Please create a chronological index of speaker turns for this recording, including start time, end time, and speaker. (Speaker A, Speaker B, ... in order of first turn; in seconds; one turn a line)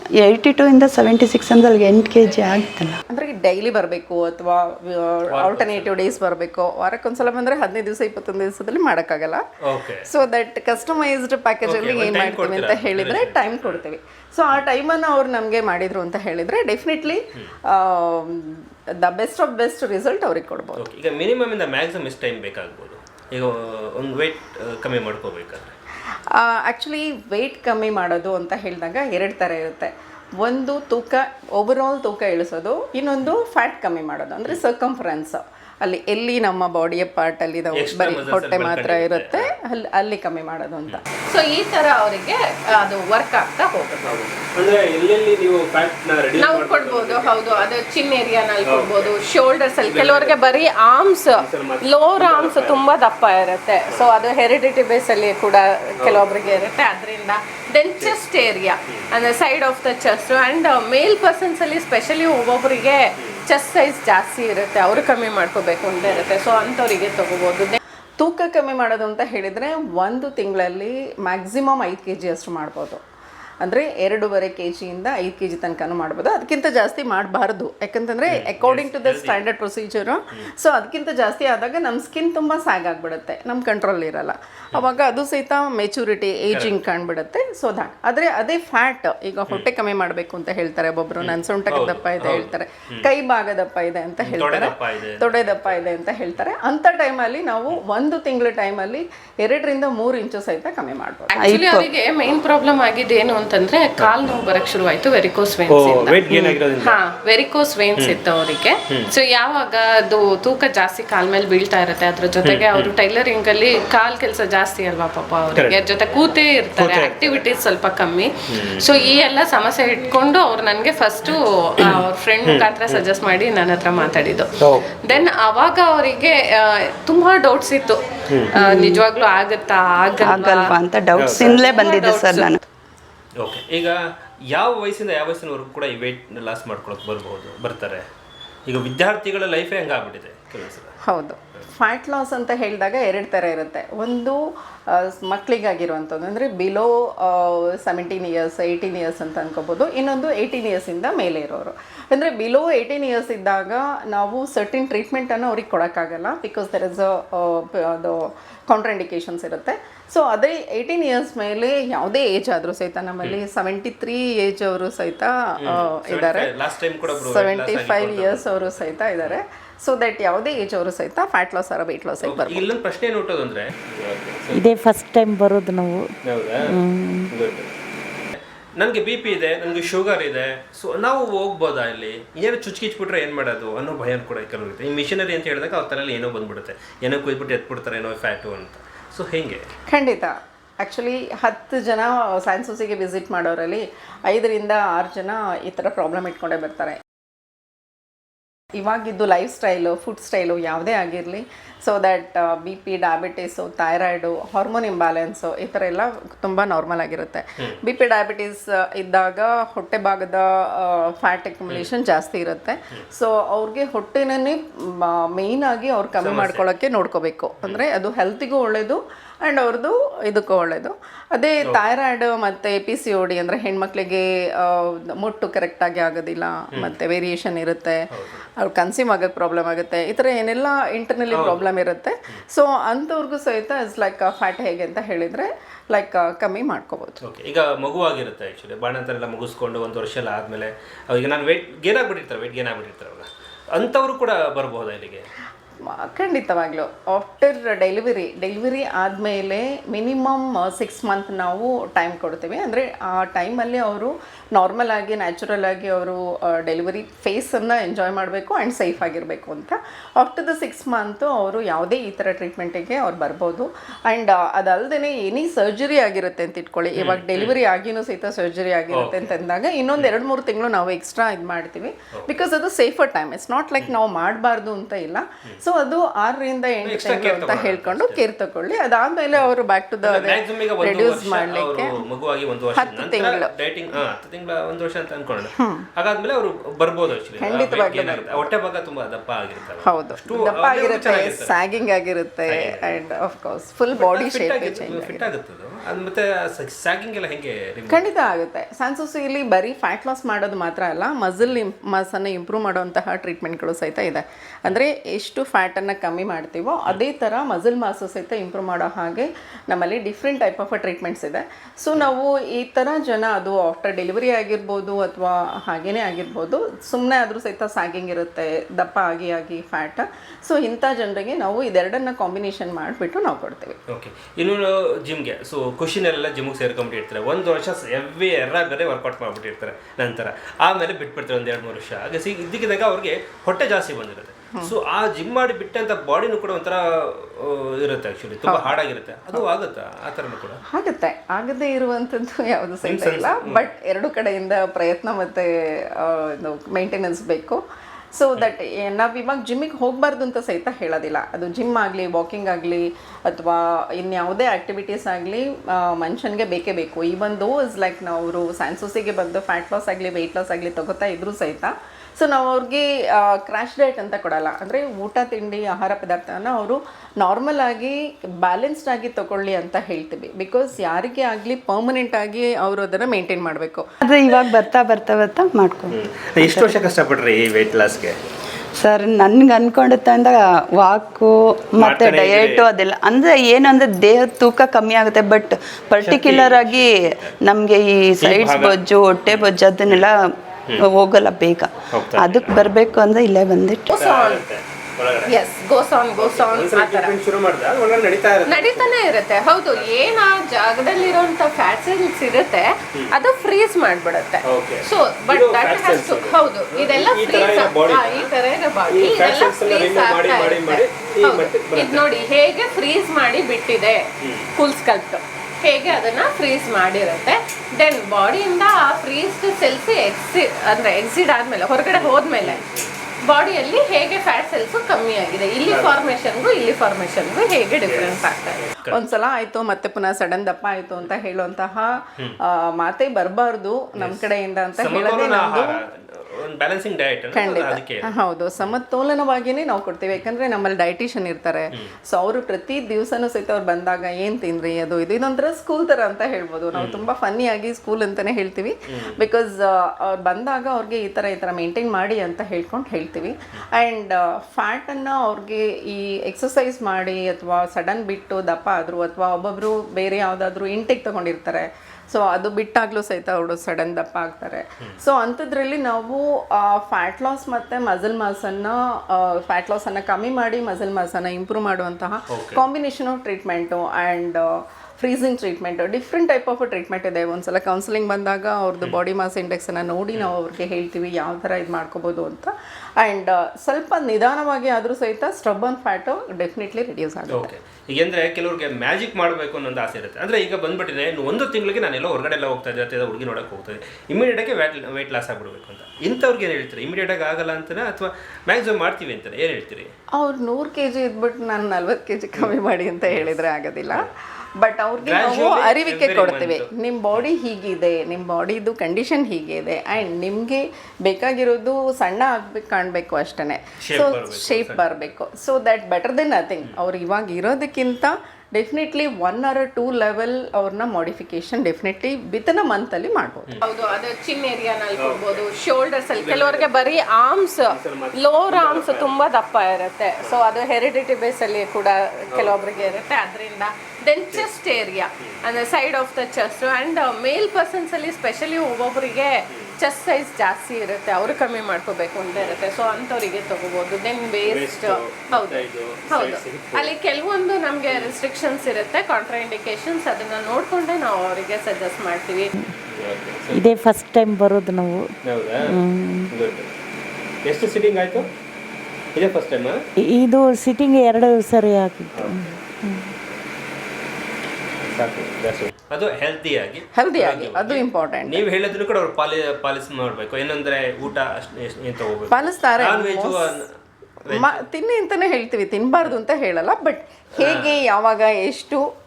Speaker A: 0.2-3.0
Speaker B: 3.1-9.4
Speaker C: 5.3-6.2
Speaker C: 9.6-10.1
Speaker B: 10.1-20.8
Speaker C: 11.6-13.8
Speaker C: 20.8-25.7
Speaker B: 26.3-41.0
Speaker C: 37.8-39.5
Speaker D: 41.3-44.2
Speaker C: 44.1-47.7
Speaker D: 46.4-67.8
Speaker C: 48.7-49.2
Speaker C: 49.8-50.6
Speaker C: 51.4-52.9
Speaker C: 53.9-54.2
Speaker C: 56.0-56.6
Speaker C: 63.2-63.4
Speaker C: 66.0-66.7
Speaker B: 68.2-73.0
Speaker B: 73.6-101.3
Speaker C: 78.3-79.4
Speaker C: 86.5-86.8
Speaker C: 91.2-93.1
Speaker C: 94.2-95.9
Speaker D: 101.3-106.2
Speaker A: 101.4-101.9
Speaker C: 105.7-107.0
Speaker A: 106.3-106.6
Speaker D: 106.8-128.0
Speaker C: 112.4-112.9
Speaker C: 115.5-116.2
Speaker C: 116.8-117.5
Speaker C: 118.5-119.2
Speaker C: 121.8-123.0
Speaker C: 124.6-125.2
Speaker D: 128.5-130.8
Speaker A: 128.6-129.0
Speaker A: 130.3-132.6
Speaker C: 131.2-131.6
Speaker D: 131.4-132.6
Speaker C: 133.4-134.0
Speaker C: 134.5-138.0
Speaker C: 138.7-140.9
Speaker B: 141.1-144.4
Speaker B: 144.9-166.5
Speaker C: 165.6-169.4
Speaker B: 167.1-172.7
Speaker C: 172.2-174.7
Speaker E: 174.5-176.1
Speaker C: 176.3-176.7
Speaker E: 176.6-177.3
Speaker C: 177.3-177.7
Speaker C: 178.8-189.7
Speaker B: 189.9-197.0
Speaker B: 198.7-228.1
Speaker C: 216.2-216.6
Speaker C: 228.1-228.5
Speaker B: 228.6-237.2
Speaker C: 231.3-231.7
Speaker C: 237.2-245.3
Speaker B: 245.9-282.0
Speaker C: 267.0-267.6
Speaker C: 268.9-269.3
Speaker C: 272.1-272.4
Speaker C: 276.8-278.3
Speaker C: 280.0-291.6
Speaker B: 282.8-283.5
Speaker B: 285.6-285.9
Speaker B: 287.4-288.5
Speaker B: 289.9-295.3
Speaker C: 292.5-293.0
Speaker C: 293.9-298.1
Speaker B: 297.9-323.8
Speaker C: 323.9-340.6
Speaker B: 338.5-338.8
Speaker B: 340.7-347.6
Speaker C: 342.8-343.7
Speaker B: 348.1-373.9
Speaker A: 374.0-376.7
Speaker C: 375.9-378.2
Speaker A: 378.8-390.2
Speaker C: 381.8-382.7
Speaker C: 386.0-387.4
Speaker C: 388.2-388.8
Speaker C: 389.3-390.1
Speaker A: 390.8-393.9
Speaker C: 391.9-392.6
Speaker D: 393.9-394.4
Speaker C: 394.0-395.4
Speaker D: 395.3-397.1
Speaker C: 396.2-399.0
Speaker D: 398.5-422.6
Speaker C: 399.7-400.1
Speaker C: 404.4-408.3
Speaker C: 408.9-412.1
Speaker C: 414.2-414.5
Speaker C: 421.9-423.0
Speaker D: 423.2-428.6
Speaker C: 425.7-426.0
Speaker C: 427.8-429.0
Speaker B: 428.9-435.8
Speaker C: 434.0-438.8
Speaker B: 437.3-474.5
Speaker C: 446.8-447.1
Speaker C: 448.9-449.2
Speaker C: 472.3-472.6
Speaker B: 475.0-487.5
Speaker C: 487.3-499.9
Speaker B: 500.1-523.6
Speaker C: 503.1-503.4
Speaker C: 505.0-507.3
Speaker C: 513.8-515.0
Speaker C: 523.5-523.9
Speaker D: 523.6-552.5
Speaker C: 525.0-525.5
Speaker C: 526.1-527.0
Speaker C: 527.7-529.2
Speaker C: 532.3-533.0
Speaker C: 542.4-543.0
Speaker C: 544.4-546.9
Speaker C: 552.9-553.7
Speaker E: 553.5-555.1
Speaker C: 555.3-555.8
Speaker E: 555.6-556.3
Speaker C: 556.3-556.7
Speaker C: 557.5-558.3
Speaker C: 559.1-559.8
Speaker E: 560.1-563.1
Speaker C: 562.1-562.5
Speaker C: 564.9-573.6
Speaker B: 566.9-568.4
Speaker B: 572.3-573.7
Speaker C: 574.3-574.6
Speaker B: 574.3-578.9
Speaker C: 577.4-577.8